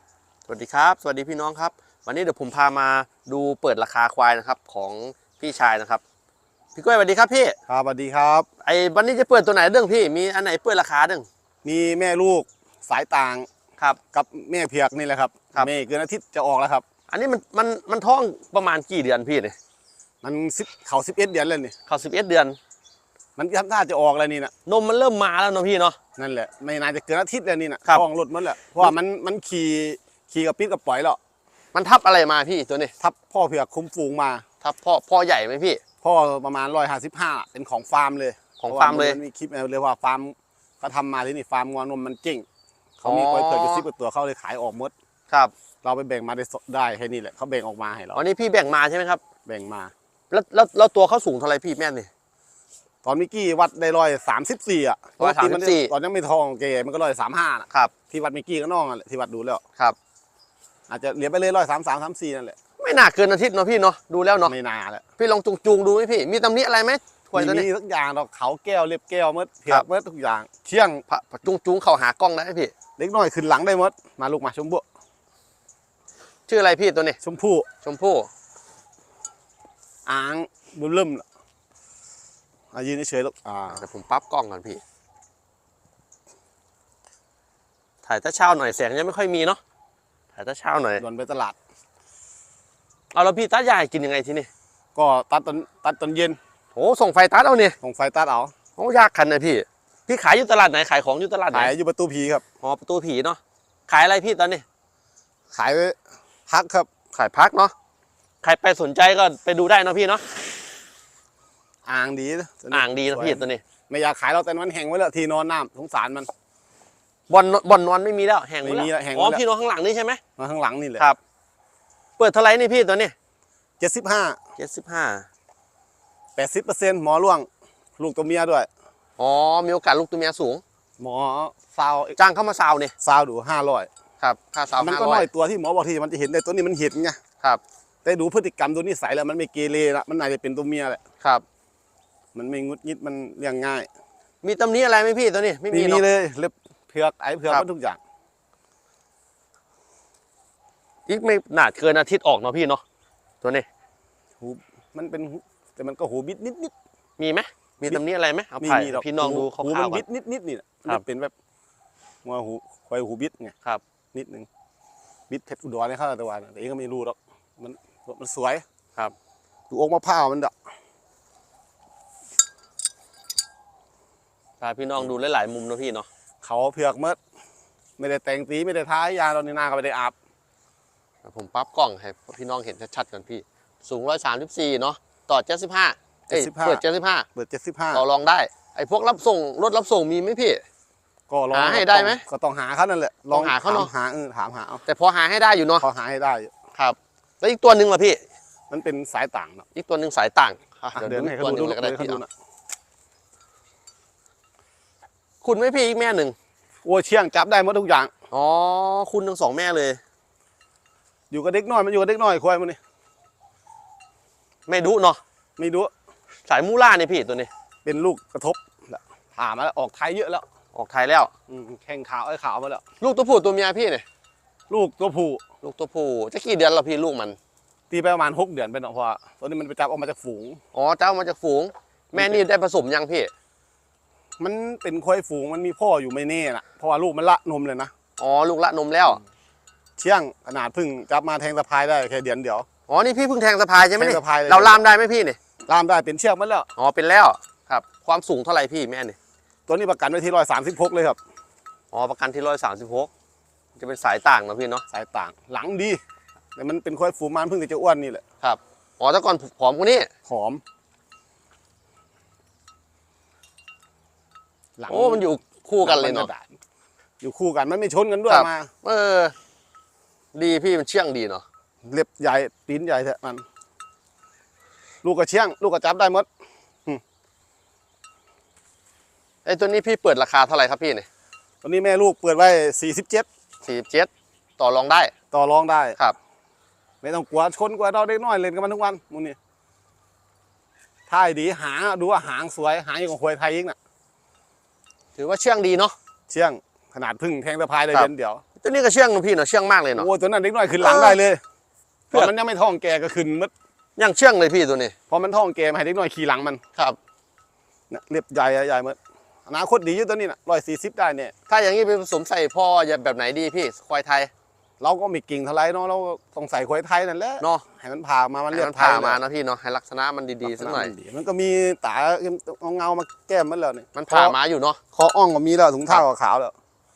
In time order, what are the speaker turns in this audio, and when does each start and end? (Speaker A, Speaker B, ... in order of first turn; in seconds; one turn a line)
Speaker A: 0.5-6.0
Speaker A: 6.7-7.5
Speaker B: 7.7-8.5
Speaker A: 8.6-11.2
Speaker B: 11.6-13.5
Speaker B: 14.1-16.8
Speaker A: 17.1-19.5
Speaker B: 20.2-21.7
Speaker A: 21.9-22.6
Speaker B: 23.4-24.5
Speaker A: 24.6-26.0
Speaker B: 26.2-31.2
Speaker A: 31.7-32.9
Speaker B: 33.0-34.4
Speaker A: 34.6-35.8
Speaker B: 36.0-42.5
Speaker A: 38.6-39.2
Speaker B: 43.0-44.9
Speaker A: 43.0-43.8
Speaker B: 45.8-48.2
Speaker A: 48.1-49.2
Speaker B: 49.5-49.9
Speaker A: 50.3-52.1
Speaker B: 53.0-59.6
Speaker A: 55.2-55.9
Speaker B: 60.9-62.5
Speaker A: 62.8-64.5
Speaker B: 64.4-65.0
Speaker A: 65.2-67.7
Speaker B: 67.3-71.0
Speaker A: 71.1-72.7
Speaker B: 73.0-74.8
Speaker A: 76.5-77.2
Speaker B: 77.2-77.7
Speaker A: 77.8-78.3
Speaker B: 80.1-81.2
Speaker B: 82.7-83.8
Speaker A: 83.7-84.8
Speaker A: 88.0-89.6
Speaker A: 90.3-91.0
Speaker B: 91.0-91.5
Speaker A: 93.1-94.5
Speaker B: 94.9-96.4
Speaker A: 96.7-97.8
Speaker B: 97.8-98.5
Speaker A: 98.8-101.7
Speaker B: 101.5-102.4
Speaker A: 102.6-104.6
Speaker B: 105.5-106.0
Speaker B: 106.5-106.9
Speaker A: 107.1-107.7
Speaker A: 108.4-110.4
Speaker B: 111.8-116.3
Speaker A: 112.7-113.6
Speaker A: 117.3-120.2
Speaker B: 118.6-119.4
Speaker B: 120.4-121.1
Speaker A: 122.2-123.1
Speaker B: 123.8-124.4
Speaker A: 124.6-125.3
Speaker B: 126.3-127.5
Speaker B: 128.0-128.7
Speaker A: 129.2-130.6
Speaker B: 131.0-132.2
Speaker A: 132.2-132.9
Speaker B: 133.0-133.9
Speaker A: 134.2-135.3
Speaker B: 134.8-137.2
Speaker B: 138.0-141.0
Speaker B: 142.3-143.9
Speaker A: 144.4-146.0
Speaker B: 145.7-148.0
Speaker A: 151.1-152.8
Speaker B: 154.4-156.7
Speaker A: 157.2-160.0
Speaker B: 158.6-161.3
Speaker B: 162.2-163.5
Speaker B: 164.1-164.5
Speaker B: 165.3-168.6
Speaker B: 169.7-170.5
Speaker A: 174.6-176.1
Speaker B: 176.4-177.2
Speaker B: 178.0-180.1
Speaker A: 181.2-187.2
Speaker B: 186.3-186.8
Speaker B: 187.3-188.0
Speaker A: 187.9-190.6
Speaker B: 191.3-194.8
Speaker A: 191.5-192.2
Speaker A: 193.3-193.9
Speaker A: 194.8-195.8
Speaker B: 195.8-196.5
Speaker A: 196.7-198.2
Speaker B: 198.7-199.6
Speaker A: 199.7-202.2
Speaker B: 200.9-202.3
Speaker A: 205.4-206.3
Speaker B: 206.8-208.1
Speaker A: 208.3-210.0
Speaker B: 211.3-212.8
Speaker A: 214.7-215.2
Speaker B: 215.6-215.9
Speaker A: 216.5-217.5
Speaker B: 217.8-220.4
Speaker A: 220.7-221.3
Speaker B: 221.5-222.8
Speaker A: 223.0-224.0
Speaker B: 224.7-225.4
Speaker A: 225.6-227.4
Speaker B: 227.9-230.6
Speaker A: 230.7-233.3
Speaker B: 232.1-232.4
Speaker B: 234.4-237.9
Speaker A: 238.2-239.2
Speaker B: 240.0-242.7
Speaker A: 242.9-245.4
Speaker B: 243.9-244.8
Speaker B: 245.7-246.7
Speaker A: 246.8-249.2
Speaker B: 249.7-251.2
Speaker A: 251.9-253.1
Speaker A: 253.8-254.8
Speaker B: 254.9-256.0
Speaker B: 256.6-258.2
Speaker A: 258.4-260.1
Speaker B: 260.2-260.6
Speaker B: 264.8-265.2
Speaker A: 264.9-266.3
Speaker B: 265.8-266.5
Speaker B: 267.2-268.7
Speaker A: 268.3-269.3
Speaker A: 270.3-271.4
Speaker B: 271.8-273.4
Speaker B: 275.0-276.3
Speaker A: 279.4-281.1
Speaker B: 281.6-283.3
Speaker A: 283.6-285.1
Speaker B: 285.3-286.0
Speaker B: 287.0-289.4
Speaker B: 291.1-293.8
Speaker A: 295.1-295.9
Speaker B: 296.3-298.4
Speaker A: 297.9-300.1
Speaker B: 299.9-301.4
Speaker A: 300.8-301.2
Speaker B: 302.1-303.5
Speaker A: 304.0-304.9
Speaker B: 305.1-306.6
Speaker B: 307.9-311.3
Speaker A: 311.5-314.3
Speaker B: 314.8-319.2
Speaker A: 317.4-317.6
Speaker A: 318.5-320.9
Speaker B: 320.4-324.4
Speaker A: 323.9-324.8
Speaker B: 324.9-326.5